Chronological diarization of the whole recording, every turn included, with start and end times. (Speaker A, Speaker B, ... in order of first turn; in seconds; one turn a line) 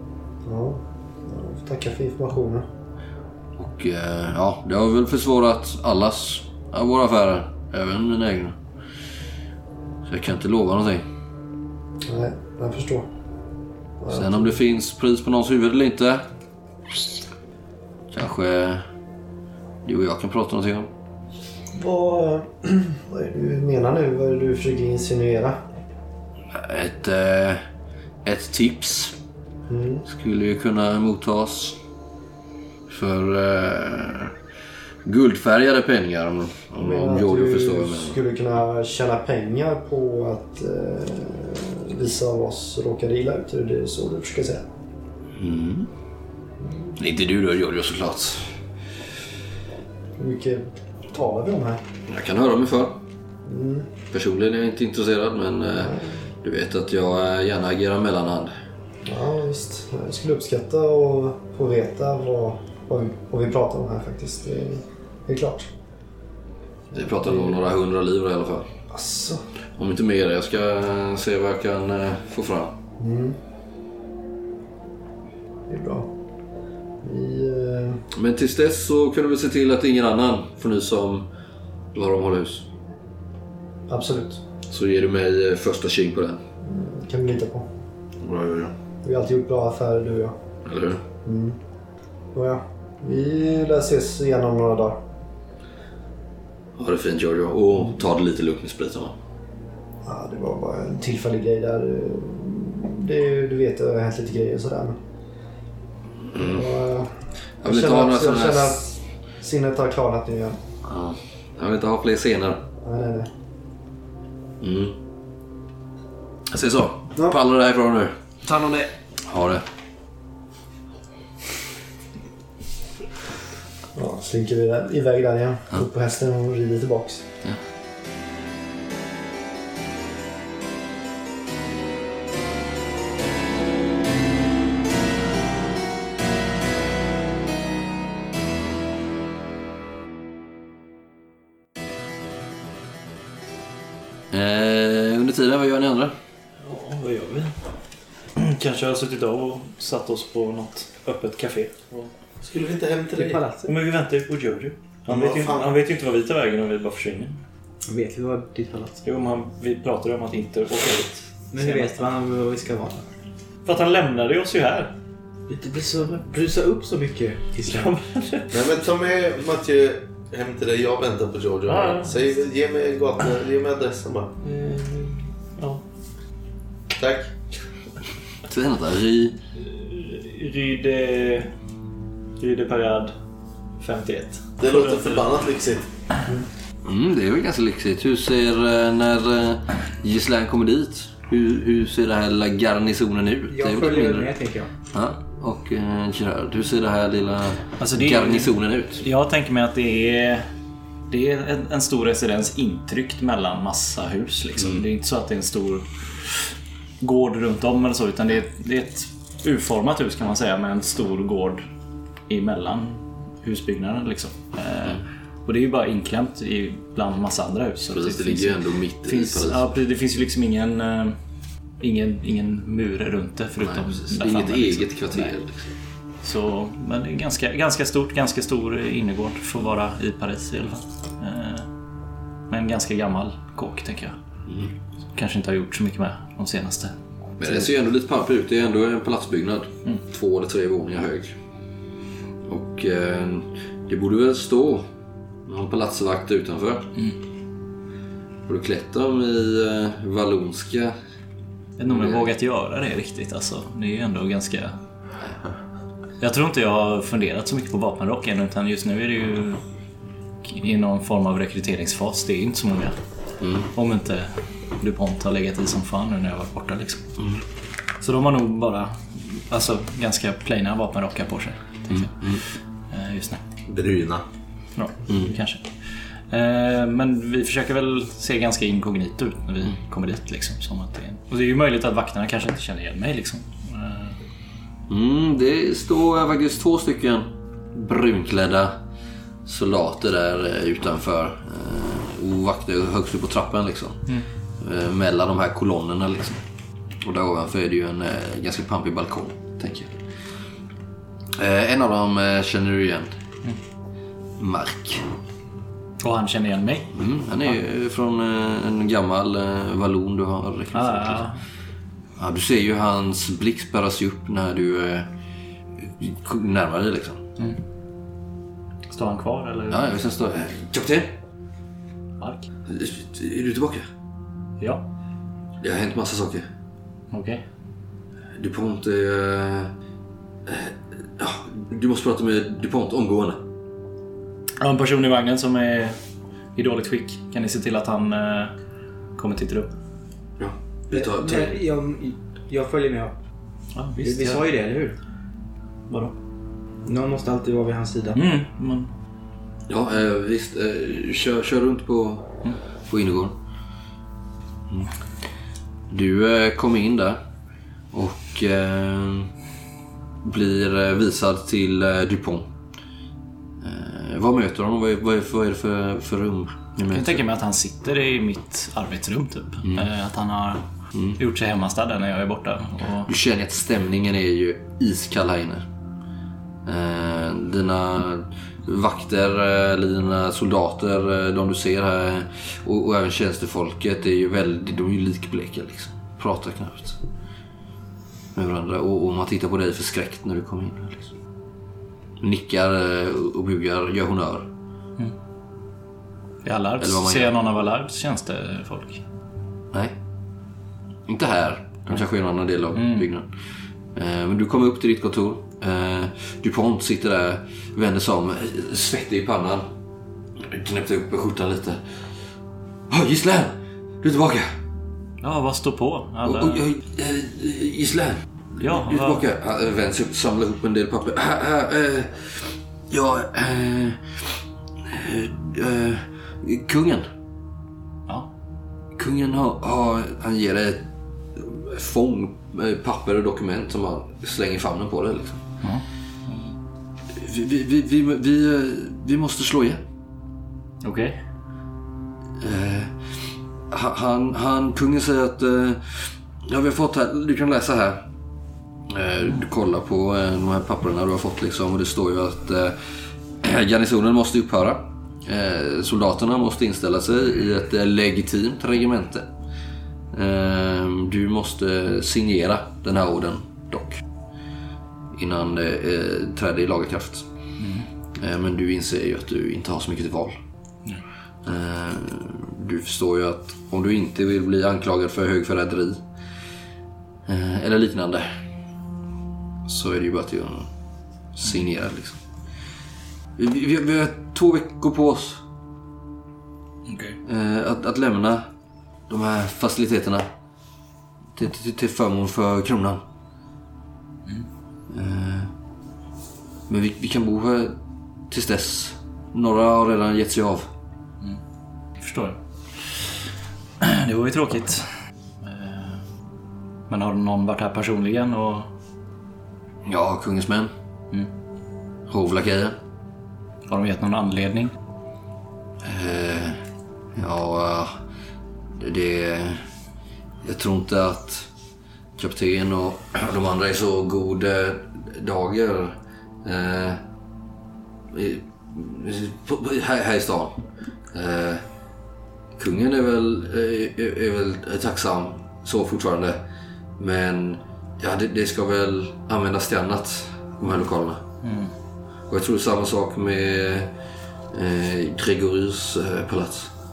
Speaker A: 0.4-2.7
Speaker B: 3.6-8.6
Speaker B: 10.1-11.1
Speaker A: 12.1-13.1
Speaker A: 14.0-14.5
Speaker B: 14.1-16.2
Speaker B: 18.1-18.8
Speaker B: 19.8-20.9
Speaker A: 21.7-25.6
Speaker B: 26.5-27.6
Speaker B: 28.2-29.1
Speaker A: 29.7-30.0
Speaker B: 30.1-31.8
Speaker B: 32.9-34.3
Speaker B: 35.0-38.2
Speaker A: 36.8-44.7
Speaker B: 45.4-45.9
Speaker A: 46.6-46.9
Speaker B: 47.0-48.5
Speaker A: 50.2-51.8
Speaker B: 52.1-53.0
Speaker A: 53.5-53.9
Speaker B: 54.1-58.5
Speaker A: 55.8-56.2
Speaker A: 59.0-65.7
Speaker A: 66.9-67.6
Speaker B: 66.9-68.7
Speaker A: 68.9-69.4
Speaker B: 69.8-72.8
Speaker A: 73.0-73.4
Speaker A: 75.7-76.1
Speaker A: 77.0-78.0
Speaker B: 78.1-81.3
Speaker B: 81.9-82.7
Speaker A: 83.9-84.4
Speaker B: 84.7-86.4
Speaker A: 86.6-87.7
Speaker B: 88.2-88.7
Speaker A: 89.0-90.4
Speaker B: 90.7-91.0
Speaker A: 91.2-91.6
Speaker A: 92.3-95.0
Speaker B: 96.8-99.2
Speaker A: 100.0-105.0
Speaker B: 106.3-106.7
Speaker A: 106.3-110.6
Speaker B: 107.6-108.9
Speaker B: 110.8-112.6
Speaker A: 112.8-113.3
Speaker B: 114.6-115.0
Speaker B: 116.5-118.1
Speaker B: 119.3-119.6
Speaker A: 123.9-127.2
Speaker B: 144.3-146.1
Speaker C: 146.6-147.5
Speaker C: 148.3-152.1
Speaker D: 152.4-153.4
Speaker E: 153.2-153.7
Speaker C: 153.6-157.4
Speaker D: 155.1-155.7
Speaker E: 157.8-159.0
Speaker C: 159.0-162.0
Speaker E: 161.5-163.1
Speaker C: 163.7-164.9
Speaker E: 165.5-167.9
Speaker C: 167.7-168.7
Speaker D: 168.5-174.3
Speaker C: 171.7-172.1
Speaker C: 174.4-175.8
Speaker D: 176.9-177.3
Speaker B: 178.5-179.4
Speaker C: 179.6-181.5
Speaker C: 182.4-183.1
Speaker C: 183.8-185.2
Speaker D: 184.6-185.9
Speaker B: 186.8-194.3
Speaker E: 193.5-194.7
Speaker B: 194.9-199.0
Speaker C: 197.8-200.5
Speaker C: 201.1-211.6
Speaker C: 212.3-221.2
Speaker B: 217.9-219.7
Speaker C: 221.8-225.3
Speaker B: 223.6-225.7
Speaker C: 226.2-231.7
Speaker C: 232.5-234.2
Speaker B: 234.5-234.7
Speaker C: 235.1-236.9
Speaker B: 237.4-241.3
Speaker B: 242.4-244.9
Speaker B: 245.4-246.9
Speaker B: 248.4-250.9
Speaker C: 251.8-254.8
Speaker B: 251.9-252.3
Speaker C: 256.2-259.6
Speaker C: 260.4-263.0
Speaker B: 263.4-263.7
Speaker C: 263.7-267.0
Speaker C: 268.0-273.4
Speaker B: 271.9-272.4
Speaker D: 273.7-274.2
Speaker C: 274.8-275.7
Speaker B: 275.1-275.3
Speaker C: 276.3-284.2
Speaker B: 284.9-288.8
Speaker B: 289.4-296.4
Speaker B: 297.0-299.9
Speaker B: 301.4-303.1
Speaker B: 304.4-305.1
Speaker C: 306.0-306.9
Speaker B: 306.9-311.3
Speaker C: 310.7-311.4
Speaker B: 312.2-315.1
Speaker B: 315.8-317.2
Speaker C: 318.9-319.9
Speaker B: 319.7-321.1
Speaker C: 322.2-322.4
Speaker B: 322.7-323.8
Speaker C: 324.6-324.8
Speaker B: 325.6-326.5
Speaker C: 327.1-327.4
Speaker B: 328.3-329.7
Speaker B: 330.4-333.4
Speaker C: 334.6-335.9
Speaker C: 336.5-338.5
Speaker C: 339.1-339.7
Speaker B: 340.4-341.6
Speaker E: 340.9-343.2
Speaker C: 343.7-344.4
Speaker E: 344.0-344.9
Speaker E: 346.9-348.2
Speaker C: 348.1-348.9
Speaker B: 349.7-353.3
Speaker B: 355.9-357.2
Speaker B: 357.9-359.3
Speaker B: 360.2-362.5
Speaker B: 363.6-367.2
Speaker C: 366.9-370.6
Speaker C: 371.1-373.1
Speaker B: 373.1-375.6
Speaker B: 376.6-387.0
Speaker B: 388.3-391.1
Speaker B: 392.2-394.5
Speaker C: 396.4-399.0
Speaker B: 396.8-397.3
Speaker B: 401.1-403.3
Speaker C: 402.7-403.1
Speaker B: 403.9-409.7
Speaker B: 410.4-412.1
Speaker B: 412.9-414.5
Speaker C: 415.2-416.6
Speaker B: 416.2-427.1
Speaker C: 418.6-419.2
Speaker B: 428.9-435.4
Speaker C: 435.6-436.5
Speaker B: 437.1-439.8
Speaker C: 440.8-441.2
Speaker B: 442.4-448.0
Speaker B: 448.9-459.3
Speaker B: 460.1-464.0
Speaker B: 465.1-467.3
Speaker C: 467.6-467.9
Speaker B: 468.1-470.4
Speaker B: 471.4-476.0
Speaker B: 477.3-478.3
Speaker B: 479.6-480.7
Speaker B: 481.3-482.2
Speaker B: 483.4-485.4
Speaker C: 486.9-487.2
Speaker B: 487.2-488.4
Speaker B: 489.1-490.3
Speaker B: 491.3-493.0
Speaker B: 494.9-495.5
Speaker B: 496.7-497.8
Speaker B: 498.3-500.7
Speaker C: 502.0-502.4
Speaker C: 503.8-506.0
Speaker C: 506.9-508.7
Speaker B: 509.8-510.7
Speaker B: 512.1-512.8
Speaker C: 513.7-514.7
Speaker B: 515.8-516.6
Speaker B: 517.1-517.9
Speaker B: 518.8-519.6
Speaker B: 520.4-521.5
Speaker B: 522.2-527.0
Speaker B: 528.1-531.6
Speaker B: 532.6-536.4
Speaker B: 537.0-541.2
Speaker C: 541.4-541.7
Speaker B: 542.3-543.9
Speaker B: 544.5-546.7